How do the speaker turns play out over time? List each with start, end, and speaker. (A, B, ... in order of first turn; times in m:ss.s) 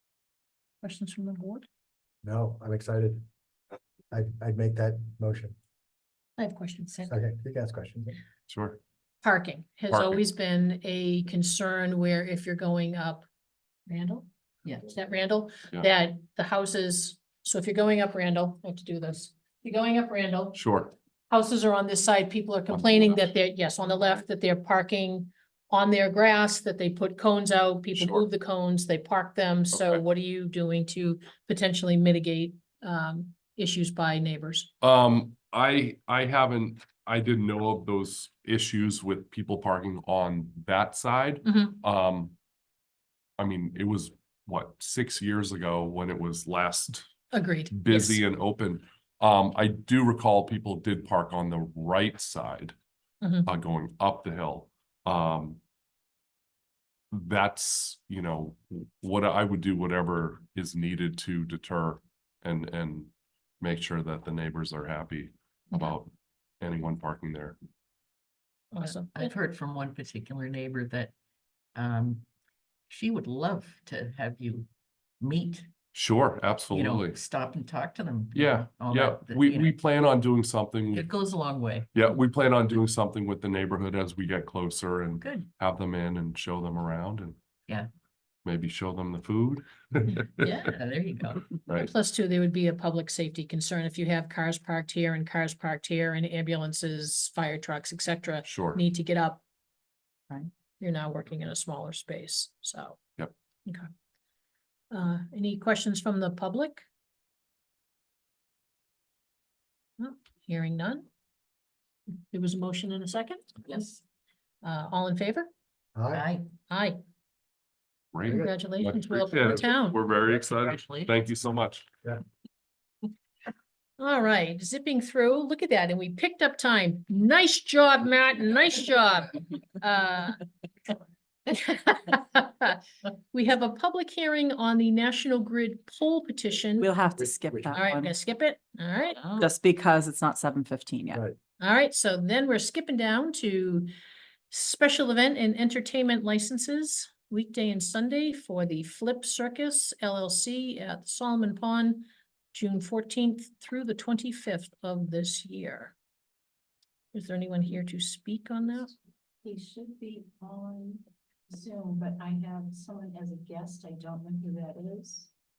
0:00.8-0:01.7 A
0:02.2-0:03.2 B
0:04.1-0:05.6 B
0:06.4-0:07.1 A
0:07.1-0:08.2 B
0:08.5-0:08.8 C
0:09.2-0:13.2 A
0:09.9-0:10.2 C
0:13.9-0:14.3 A
0:14.8-0:34.7 A
0:20.5-0:20.9 C
0:22.7-0:23.2 C
0:28.0-0:28.2 C
0:29.7-0:30.0 C
0:34.8-0:42.3 C
0:41.4-0:41.8 A
0:43.4-0:47.1 C
0:47.3-0:48.2 A
0:47.7-0:52.8 C
0:53.2-0:53.5 A
0:53.4-0:55.6 C
0:57.1-1:07.6 C
1:08.7-1:09.3 A
1:08.8-1:11.1 D
1:11.7-1:12.2 D
1:12.9-1:14.7 D
1:15.2-1:15.7 D
1:15.9-1:17.2 C
1:16.7-1:19.8 D
1:18.3-1:21.1 C
1:20.9-1:21.9 D
1:21.9-1:27.4 C
1:25.2-1:25.5 D
1:28.4-1:30.6 C
1:30.4-1:31.5 D
1:31.7-1:39.4 A
1:38.4-1:38.8 C
1:40.8-1:43.0 A
1:44.9-1:46.8 A
1:50.0-1:51.1 A
1:52.3-1:53.4 A
1:53.6-1:54.0 D
1:54.6-1:55.5 A
1:55.9-1:56.3 B
1:56.1-1:56.5 D
1:56.7-1:57.0 A
1:58.1-2:01.9 C
1:58.3-2:00.0 A
2:00.3-2:01.2 D
2:04.0-2:10.4 A
2:11.5-2:12.8 A
2:13.3-2:16.9 A
2:16.8-2:18.1 E
2:17.2-2:17.8 B
2:17.7-2:19.2 A
2:19.1-2:19.5 D
2:19.4-2:21.2 E
2:21.6-2:23.9 A
2:24.5-2:35.9 A
2:37.1-2:38.9 A
2:39.4-2:41.0 F
2:41.5-2:45.3 F